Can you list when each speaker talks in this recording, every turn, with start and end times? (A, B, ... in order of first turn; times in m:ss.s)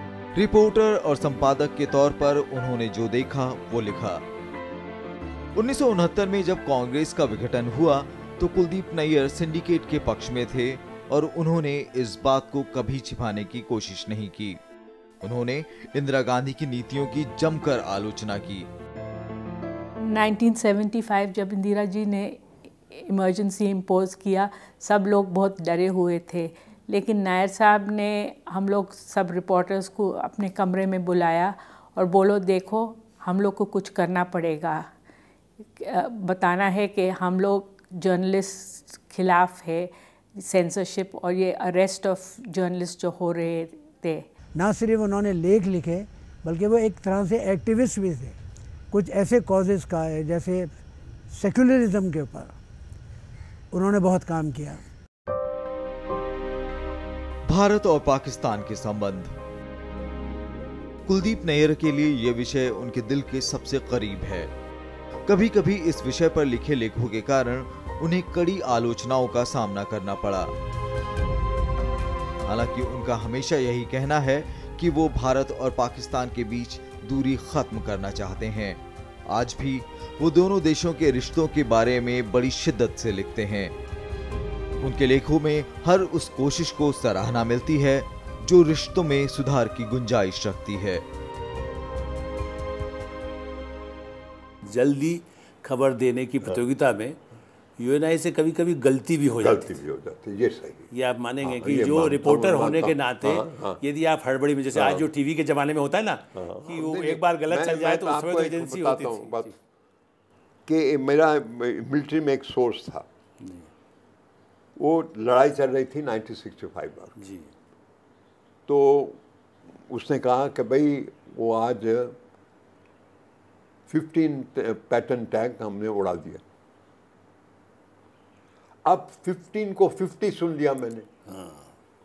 0:00.4-0:04.2 A
0:05.6-0:14.6 A
0:15.2-0:18.7 A
0:20.0-0:34.9 B
0:35.8-0:44.3 B
0:44.6-0:48.4 C
0:48.9-0:50.8 C
0:51.3-0:52.6 C
0:53.7-0:54.8 C
0:57.5-0:59.3 A
1:01.1-1:04.5 A
1:05.3-1:10.5 A
1:12.5-1:23.7 A
1:24.8-1:31.0 A
1:34.6-1:37.2 D
1:37.8-1:39.8 D
1:39.4-1:40.9 E
1:40.9-1:49.5 D
1:41.4-1:43.8 E
1:44.7-1:45.1 E
1:46.3-1:49.5 E
1:50.7-1:53.1 E
1:53.4-1:53.7 D
1:54.8-1:57.2 E
1:57.2-1:57.5 D
1:58.7-1:59.2 E
1:59.9-2:02.2 E
2:03.9-2:06.4 E
2:08.8-2:11.1 E
2:11.3-2:11.7 D